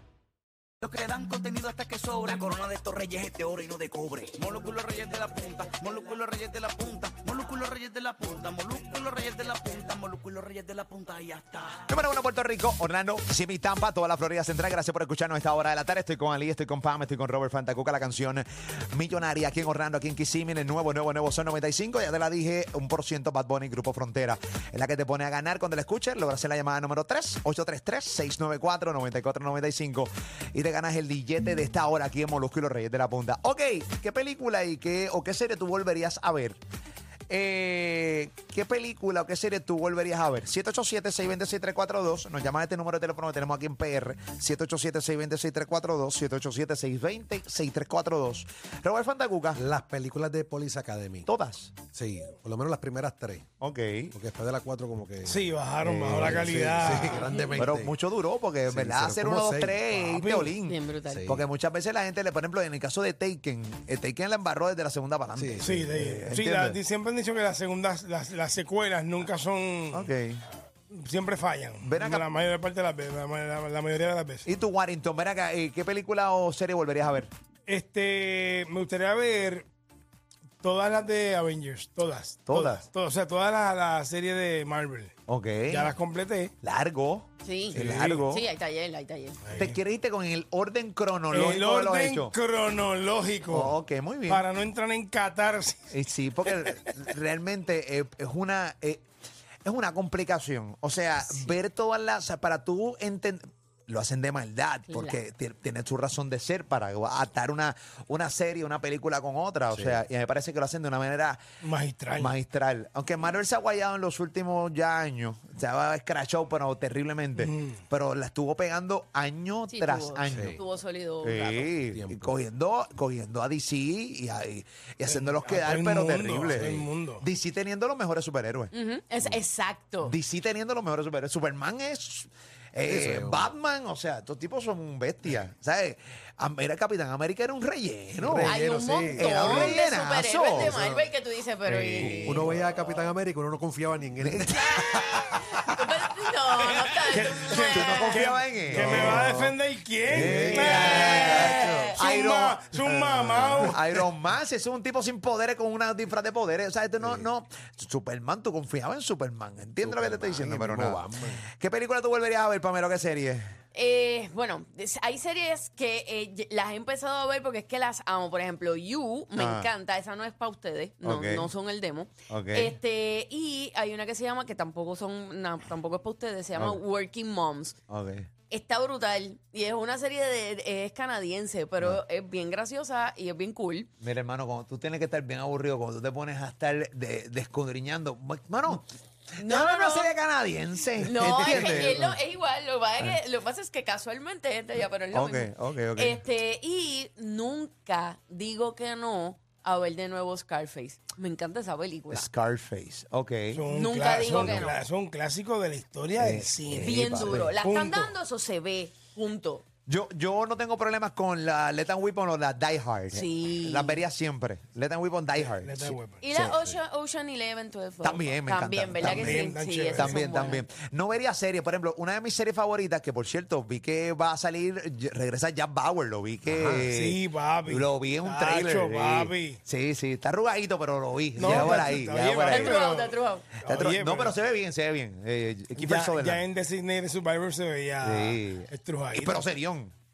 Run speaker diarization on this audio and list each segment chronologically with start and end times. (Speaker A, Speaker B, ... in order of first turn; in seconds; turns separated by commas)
Speaker A: 0.8-11.9, Speaker B: 11.9-36.6, Speaker B: 37.3-49.6, Speaker C: 49.5-51.3, Speaker B: 51.3-51.8, Speaker C: 51.8-53.5, Speaker B: 53.6-54.1, Speaker C: 54.1-55.5, Speaker D: 55.2-57.3, Speaker B: 55.8-56.5, Speaker C: 56.2-58.0, Speaker E: 57.1-57.6, Speaker B: 57.6-66.8, Speaker C: 58.7-59.8, Speaker D: 59.9-60.5, Speaker E: 60.7-61.2, Speaker C: 61.1-61.5, Speaker C: 65.4-65.7, Speaker D: 65.6-70.1, Speaker B: 69.9-70.4, Speaker D: 70.9-74.5, Speaker B: 71.8-72.2, Speaker B: 74.5-77.3, Speaker D: 77.7-79.7, Speaker D: 80.6-85.1, Speaker B: 82.5-82.8, Speaker B: 85.3-85.9, Speaker D: 85.7-86.5, Speaker B: 86.6-88.5, Speaker E: 87.4-89.4, Speaker D: 87.7-88.2, Speaker D: 89.5-89.8, Speaker B: 89.5-92.3, Speaker D: 91.3-93.8, Speaker B: 93.5-94.5, Speaker D: 94.3-95.9, Speaker B: 95.9-99.0, Speaker B: 99.7-111.4, Speaker E: 101.3-101.5, Speaker E: 104.9-105.2, Speaker C: 109.7-110.0, Speaker D: 111.6-112.3, Speaker B: 112.2-120.6, Speaker D: 117.4-117.8, Speaker E: 119.7-121.7, Speaker C: 120.3-120.6, Speaker B: 121.2-128.7, Speaker C: 121.9-122.3, Speaker D: 125.1-127.3, Speaker E: 128.7-130.2, Speaker B: 130.0-138.6, Speaker C: 132.8-133.5, Speaker C: 138.2-139.8, Speaker E: 138.5-142.8, Speaker B: 139.1-140.8, Speaker C: 140.6-141.1, Speaker C: 141.7-145.7, Speaker B: 142.0-142.6, Speaker B: 144.2-145.6, Speaker E: 144.5-148.3, Speaker D: 146.8-154.0, Speaker B: 147.7-149.3, Speaker C: 148.7-150.8, Speaker B: 150.1-163.5, Speaker E: 150.6-151.9, Speaker C: 153.3-153.6, Speaker C: 157.0-157.3, Speaker C: 159.8-161.4, Speaker E: 163.7-177.8, Speaker B: 169.3-169.7, Speaker B: 171.0-171.5, Speaker B: 172.3-172.8, Speaker B: 176.6-176.8, Speaker B: 177.9-178.3, Speaker E: 178.5-183.9, Speaker B: 184.0-188.9, Speaker E: 189.4-190.2, Speaker B: 189.4-192.2, Speaker E: 191.0-202.3, Speaker B: 195.1-196.2, Speaker B: 202.1-203.7, Speaker D: 203.5-208.2, Speaker E: 203.7-204.8, Speaker B: 204.2-204.7, Speaker B: 206.2-207.5, Speaker E: 206.8-209.7, Speaker B: 209.9-216.8, Speaker E: 213.1-214.0, Speaker D: 215.4-216.2, Speaker E: 216.2-220.6, Speaker B: 218.0-232.8, Speaker D: 219.0-220.2, Speaker D: 226.5-229.6, Speaker D: 231.4-234.3, Speaker E: 232.5-233.5, Speaker B: 233.6-236.4, Speaker D: 235.8-239.4, Speaker B: 238.0-239.9